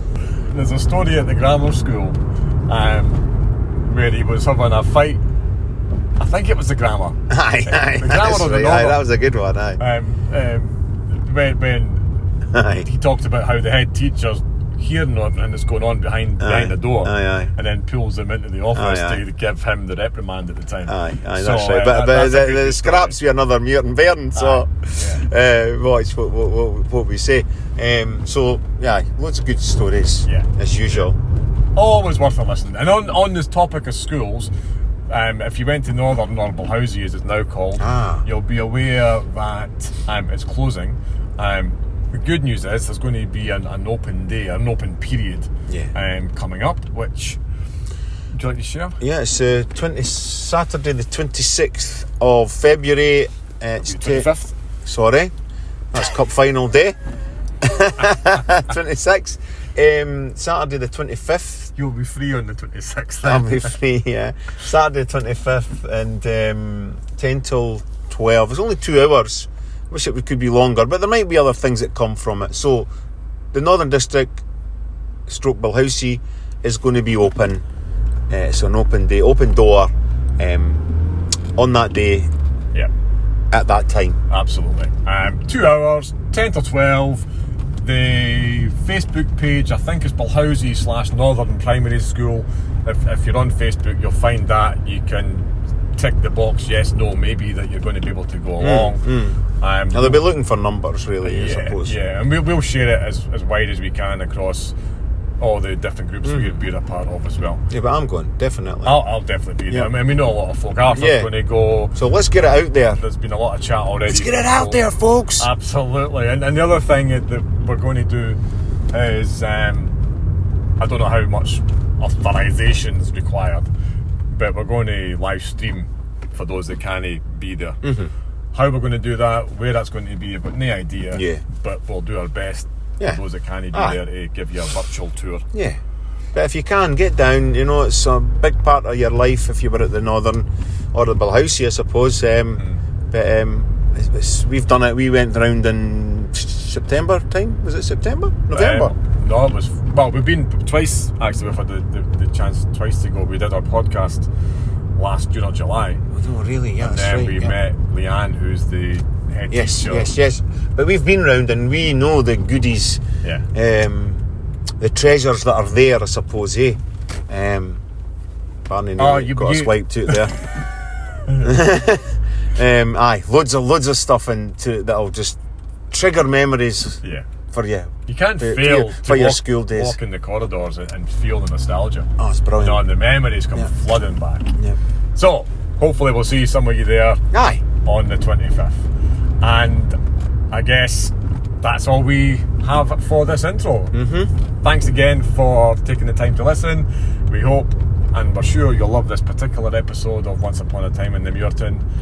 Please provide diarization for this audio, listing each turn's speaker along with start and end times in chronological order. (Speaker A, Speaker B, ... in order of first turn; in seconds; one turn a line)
Speaker A: 0.5-5.2
Speaker A: 6.2-9.0
Speaker B: 7.3-9.8
Speaker A: 9.8-12.1
Speaker B: 12.5-12.9
Speaker A: 12.8-23.2
Speaker B: 16.4-17.5
Speaker B: 18.7-19.2
Speaker B: 20.9-31.2
Speaker A: 24.3-25.3
Speaker A: 30.2-31.1
Speaker A: 31.7-34.5
Speaker A: 35.1-47.4
Speaker B: 37.8-38.2
Speaker A: 48.3-49.0
Speaker B: 49.0-54.3
Speaker A: 53.8-54.5
Speaker B: 54.8-55.3
Speaker B: 55.9-57.0
Speaker B: 57.6-61.7
Speaker A: 61.8-63.7
Speaker B: 63.2-72.9
Speaker B: 73.5-74.4
Speaker B: 75.3-77.6
Speaker B: 78.3-80.8
Speaker B: 81.5-82.3
Speaker B: 83.5-84.2
Speaker A: 84.3-87.2
Speaker A: 87.8-100.3
Speaker B: 98.6-99.4
Speaker B: 99.9-102.0
Speaker A: 101.2-104.7
Speaker A: 105.4-107.6
Speaker B: 106.2-106.5
Speaker B: 107.7-109.0
Speaker A: 108.8-114.8
Speaker B: 110.9-111.3
Speaker B: 111.9-113.0
Speaker B: 114.1-115.5
Speaker A: 115.4-118.4
Speaker A: 118.9-120.0
Speaker A: 120.8-123.7
Speaker A: 124.3-127.8
Speaker B: 127.8-128.1
Speaker A: 128.5-135.4
Speaker B: 131.1-131.4
Speaker B: 133.7-134.0
Speaker B: 135.5-135.8
Speaker B: 136.3-148.9
Speaker A: 148.5-154.3
Speaker A: 154.9-156.0
Speaker B: 156.1-157.6
Speaker A: 156.8-160.1
Speaker B: 159.5-164.2
Speaker B: 164.8-167.8
Speaker B: 168.7-170.3
Speaker A: 169.0-170.5
Speaker A: 171.3-171.5
Speaker B: 171.4-175.4
Speaker B: 175.9-180.0
Speaker A: 178.1-182.1
Speaker B: 182.2-182.8
Speaker A: 182.6-184.5
Speaker A: 185.2-187.2
Speaker B: 187.3-187.7
Speaker A: 187.8-188.8
Speaker A: 189.4-190.0
Speaker A: 190.5-194.0
Speaker B: 193.9-194.3
Speaker A: 194.6-201.8